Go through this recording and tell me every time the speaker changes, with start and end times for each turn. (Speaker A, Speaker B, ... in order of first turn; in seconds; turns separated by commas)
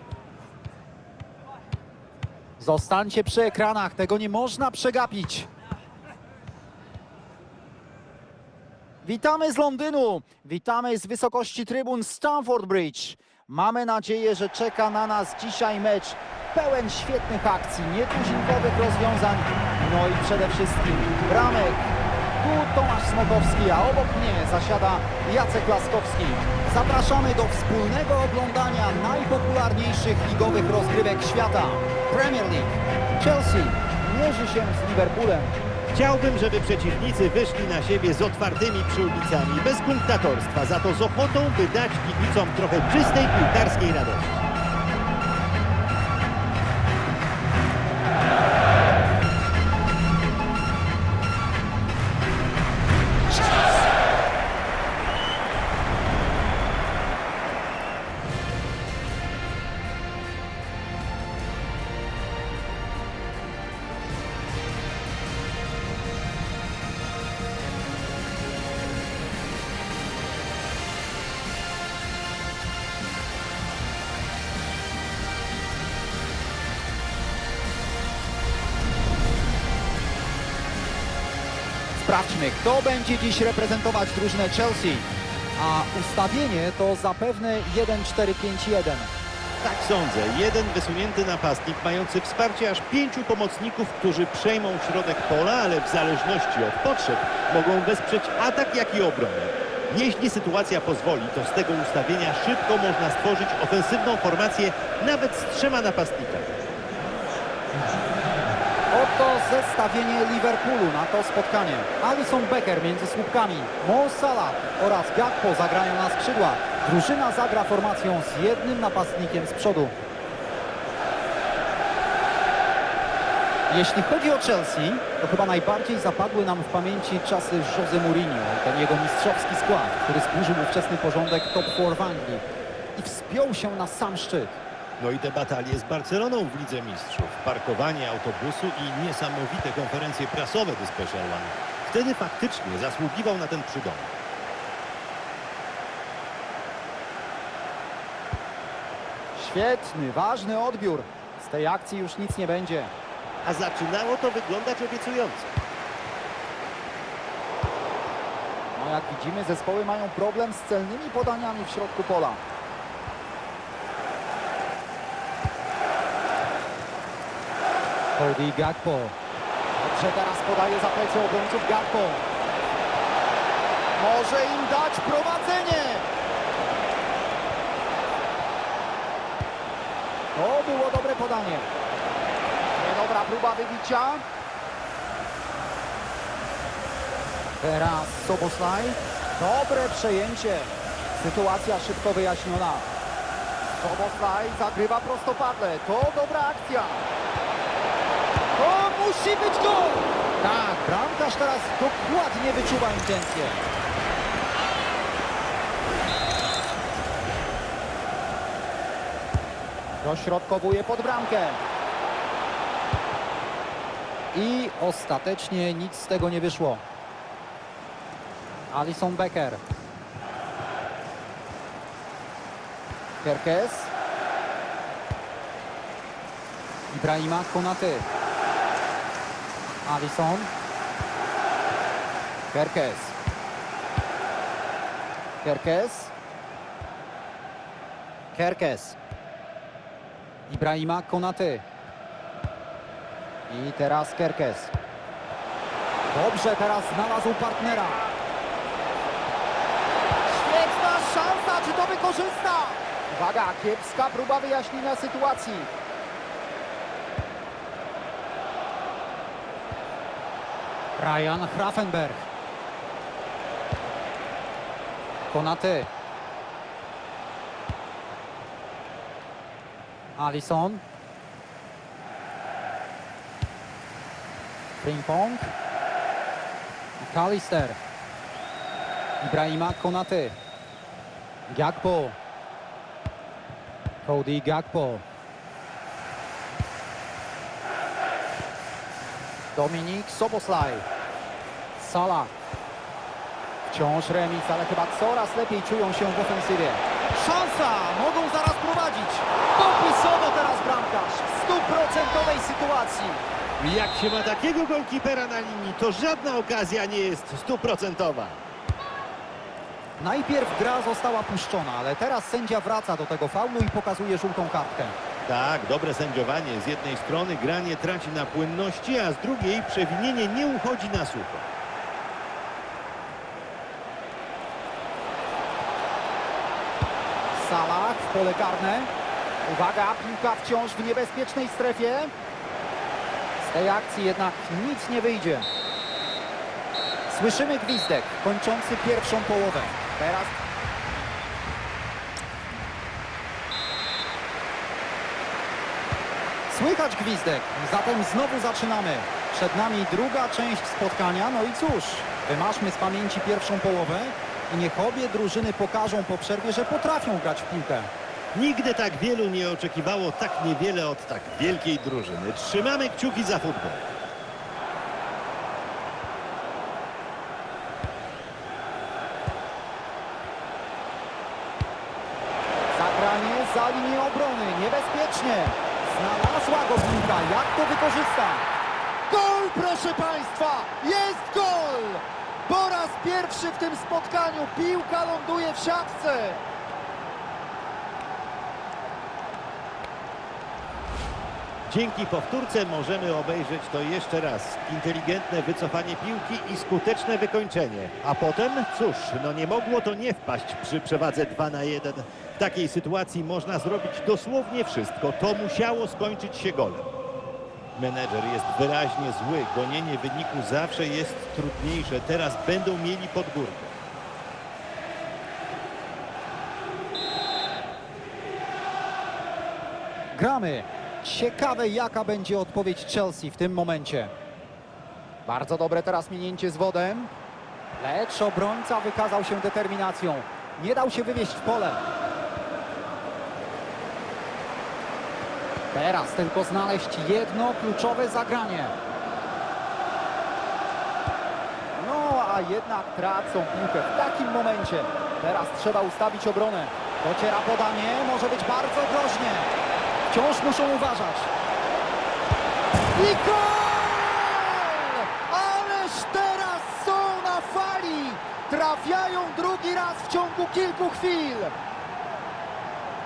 Speaker A: 2.6-5.5, Speaker A: 9.0-21.8, Speaker A: 22.4-35.5, Speaker B: 35.9-44.5, Speaker A: 81.9-89.1, Speaker B: 89.6-106.6, Speaker B: 107.8-108.3, Speaker A: 108.9-119.9, Speaker A: 123.7-132.4, Speaker A: 132.9-134.5, Speaker B: 135.0-144.1, Speaker A: 149.3-152.9, Speaker B: 153.4-155.5, Speaker A: 158.7-162.4, Speaker A: 168.1-169.1, Speaker A: 169.8-172.2, Speaker A: 173.9-176.1, Speaker A: 180.3-181.7, Speaker A: 182.8-184.2, Speaker A: 187.6-192.8, Speaker A: 193.7-197.0, Speaker A: 198.6-203.6, Speaker A: 210.0-211.6, Speaker A: 214.3-216.8, Speaker A: 218.7-219.6, Speaker A: 223.2-223.9, Speaker A: 226.9-228.1, Speaker A: 229.8-230.5, Speaker A: 232.5-233.1, Speaker A: 235.4-236.1, Speaker A: 238.3-239.0, Speaker A: 240.5-241.6, Speaker A: 243.5-244.7, Speaker A: 246.1-248.1, Speaker A: 250.2-255.7, Speaker A: 261.0-262.3, Speaker A: 265.3-265.9, Speaker A: 270.1-270.8, Speaker A: 274.8-275.5, Speaker A: 277.0-277.8, Speaker A: 279.2-280.4, Speaker A: 281.5-282.2, Speaker A: 284.0-285.0, Speaker A: 289.5-290.8, Speaker A: 291.8-292.3, Speaker A: 293.6-303.2, Speaker B: 303.6-308.4, Speaker A: 310.0-314.9, Speaker B: 315.2-321.5, Speaker A: 327.3-328.9, Speaker A: 329.4-332.1, Speaker A: 333.4-335.5, Speaker A: 337.1-340.4, Speaker A: 346.5-357.9, Speaker B: 358.3-363.9, Speaker A: 372.7-378.4, Speaker A: 379.1-386.4, Speaker B: 391.7-406.9, Speaker B: 407.7-413.8, Speaker A: 420.1-424.1, Speaker A: 425.2-427.1, Speaker A: 427.8-431.8, Speaker A: 435.7-438.7, Speaker A: 441.8-449.5, Speaker A: 450.1-451.3, Speaker A: 452.9-461.5